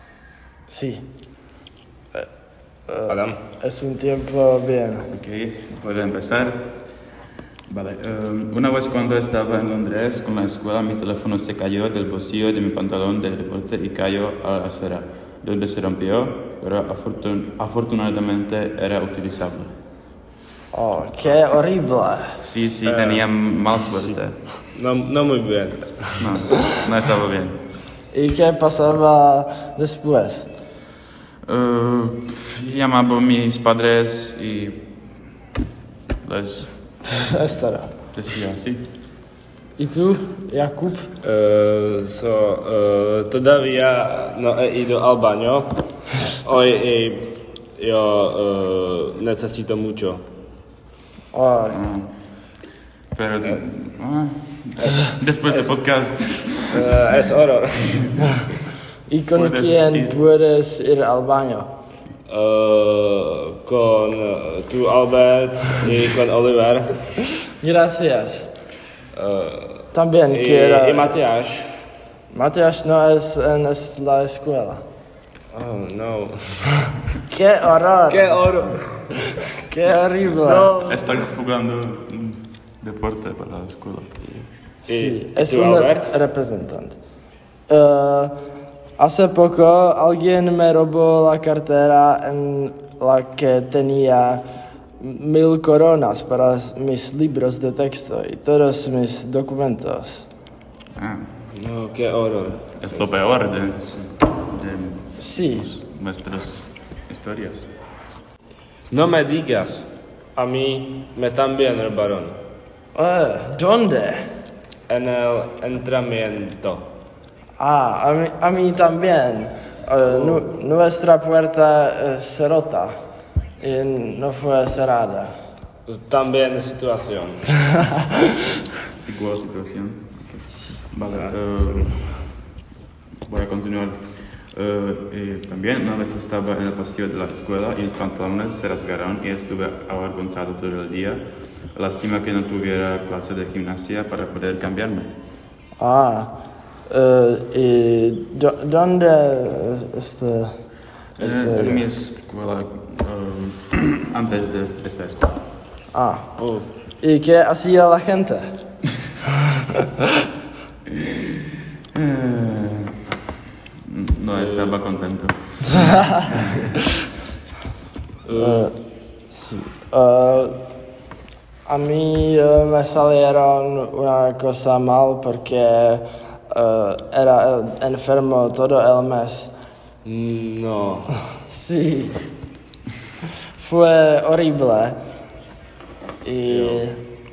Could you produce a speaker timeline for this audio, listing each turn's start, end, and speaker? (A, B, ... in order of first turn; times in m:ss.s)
0:00.7-0:01.0 A
0:02.9-0:05.1 A
0:03.1-0:03.4 B
0:05.1-0:06.7 C
0:07.7-0:19.7 C
0:20.7-0:22.4 A
0:22.4-0:24.4 C
0:22.8-0:23.2 B
0:23.9-0:24.2 B
0:24.7-0:26.3 B
0:26.2-0:27.6 C
0:28.1-0:30.5 A
0:31.5-0:34.8 C
0:36.2-0:36.7 C
0:37.0-0:37.9 A
0:38.1-0:38.8 C
0:39.8-0:41.1 A
0:41.2-0:50.2 B
0:51.3-0:51.8 A
0:51.7-0:52.1 C
0:53.1-0:56.9 C
0:54.8-0:55.7 B
0:56.7-0:58.4 B
0:59.1-1:01.7 A
0:59.3-1:00.2 C
1:02.3-1:07.0 B
1:07.6-1:08.5 A
1:09.1-1:11.7 B
1:09.9-1:11.2 A
1:12.3-1:14.8 A
1:15.5-1:16.8 B
1:17.3-1:18.5 A
1:18.1-1:19.4 B
1:19.7-1:20.8 A
1:20.4-1:21.1 B
1:20.8-1:24.1 C
1:24.8-1:27.0 A
1:24.8-1:26.1 B
1:27.7-1:28.3 A
1:29.0-1:34.4 A
1:35.0-1:40.2 A
1:41.0-1:41.2 C
1:41.5-1:42.6 B
1:42.8-1:47.7 C
1:45.2-1:45.7 A
1:48.9-1:52.4 B
1:52.9-1:54.2 A
1:54.9-1:56.8 B
1:57.6-2:02.9 A
2:03.6-2:05.3 A
2:05.9-2:07.6 B
2:07.9-2:08.3 A
2:09.0-2:12.0 C
2:11.1-2:12.0 B
2:13.2-2:14.0 C
2:14.5-2:21.2 C
2:21.8-2:25.1 C
2:25.8-2:26.3 A
2:26.9-2:30.6 A
2:31.2-2:35.4 C
2:31.2-2:31.8 A
2:35.9-2:36.3 A
2:36.4-2:36.7 B
2:37.0-2:38.5 A
2:40.9-2:42.9 C
2:43.9-2:46.7 C
2:44.4-2:44.7 B
2:45.8-2:46.2 A
2:48.2-2:48.7 B
2:48.3-2:48.7 A
2:49.3-2:50.6 A
2:51.7-2:59.5 A
3:00.0-3:01.1 B
3:01.5-3:02.2 A
3:03.6-3:04.9 A
3:06.2-3:07.0 A
3:06.5-3:06.8 B